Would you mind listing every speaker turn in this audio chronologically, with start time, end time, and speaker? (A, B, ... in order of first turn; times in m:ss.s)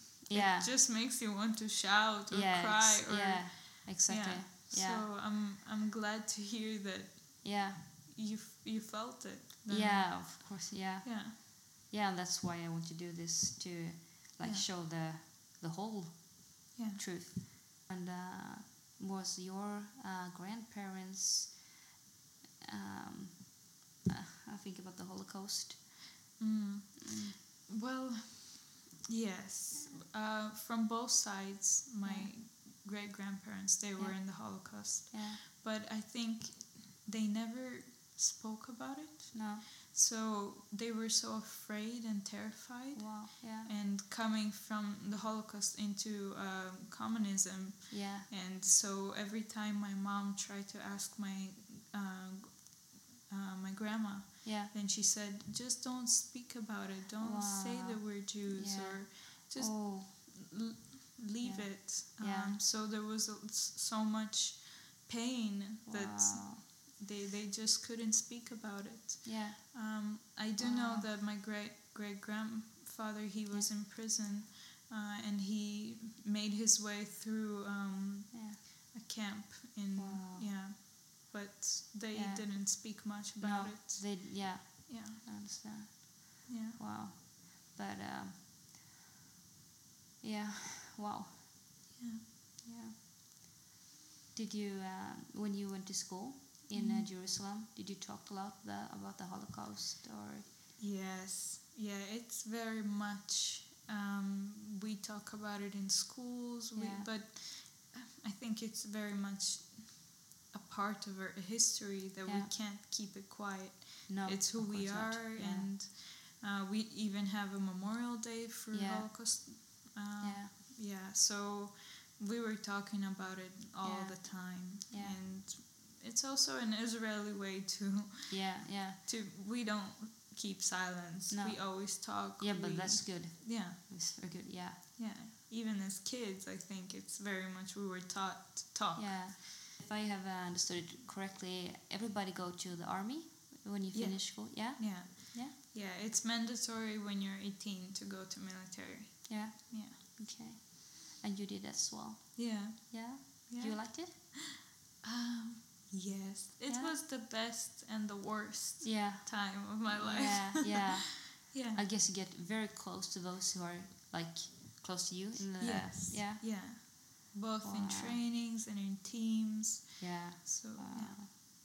0:00.3-0:00.7 A
0:00.3-0:11.3 B
0:02.3-0:05.0 A
0:07.4-0:07.8 A
0:09.7-0:21.6 A
0:14.4-0:14.7 B
0:16.7-0:17.0 B
0:22.6-0:26.0 A
0:26.4-1:25.3 B
0:27.0-0:27.4 A
0:32.0-0:32.3 A
0:34.0-0:35.4 A
0:39.3-0:39.6 A
0:42.9-0:43.7 A
0:47.9-0:48.3 A
0:54.4-0:54.7 A
0:57.2-1:00.3 A
1:01.4-1:02.6 A
1:05.9-1:06.6 A
1:09.2-1:09.7 A
1:10.6-1:11.1 A
1:18.3-1:18.6 A
1:19.9-1:20.5 A
1:22.1-1:28.5 A
1:26.4-1:26.8 B
1:30.2-1:32.0 A
1:32.0-1:32.2 B
1:32.6-1:32.9 A
1:34.3-1:40.4 A
1:36.7-1:37.1 B
1:40.8-2:13.8 B
1:46.8-1:47.1 A
1:52.2-1:52.5 A
1:54.1-1:55.7 A
1:58.7-1:59.5 A
2:00.2-2:00.5 A
2:03.8-2:05.2 A
2:08.3-2:09.0 A
2:11.3-2:14.8 A
2:15.0-2:19.4 B
2:18.9-2:25.5 A
2:23.9-2:30.0 B
2:29.3-2:34.2 A
2:32.4-2:41.8 B
2:36.7-2:37.0 A
2:38.8-2:47.0 A
2:45.6-2:51.2 B
2:47.6-2:48.2 A
2:50.0-2:51.4 A